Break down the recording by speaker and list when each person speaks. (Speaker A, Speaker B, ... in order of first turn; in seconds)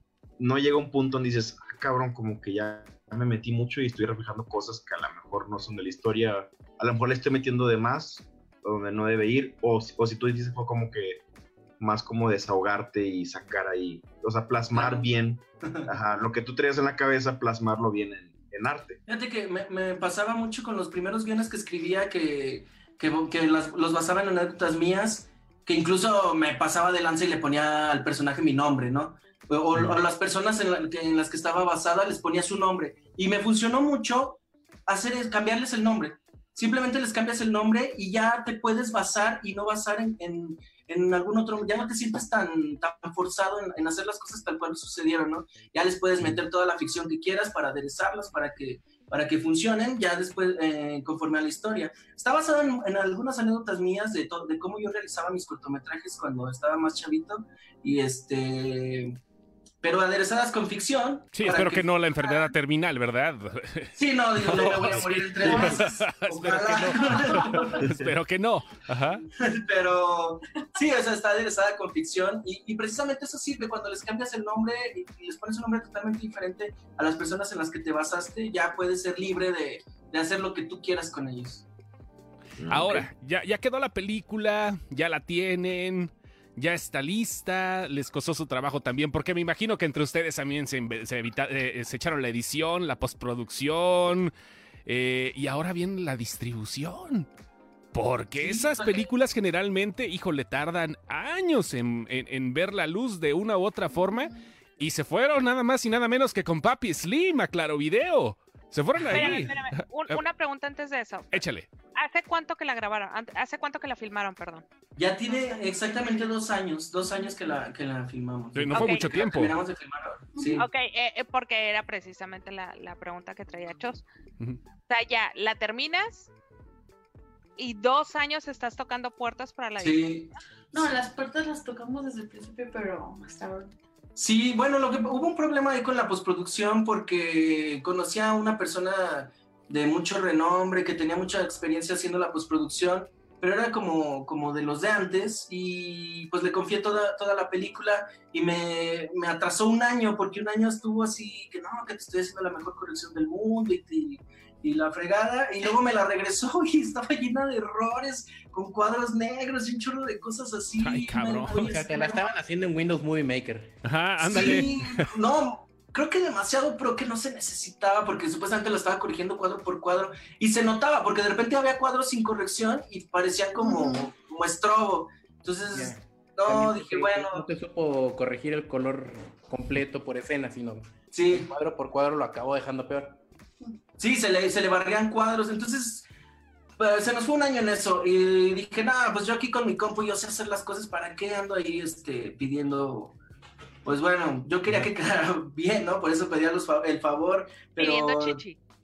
Speaker A: 0.4-11.2, 11.8-19.0, 67.8-68.2, 82.6-83.1
Speaker B: 14.7-15.1, 15.6-15.9, 19.1-59.2, 59.8-61.9, 64.0-67.8, 69.2-81.7, 98.4-99.1, 109.0-109.5, 115.0-120.7, 129.8-130.3, 134.2-162.3, 164.2-177.4, 181.1-181.5, 184.0-186.1, 186.8-193.2, 193.8-198.4
Speaker C: 61.3-69.2, 82.7-94.3, 94.9-97.3, 97.9-110.2, 111.3-111.7, 118.5-119.6, 160.8-161.7, 163.8-165.1
Speaker D: 65.5-65.8, 67.1-67.7, 120.3-120.6, 130.7-133.8, 173.6-174.1
Speaker E: 109.1-111.4, 112.0-114.7, 118.7-119.0, 120.5-124.0, 124.9-126.3, 127.6-130.3, 197.8-198.6
Speaker F: 161.5-163.8, 164.3-164.7, 175.7-183.2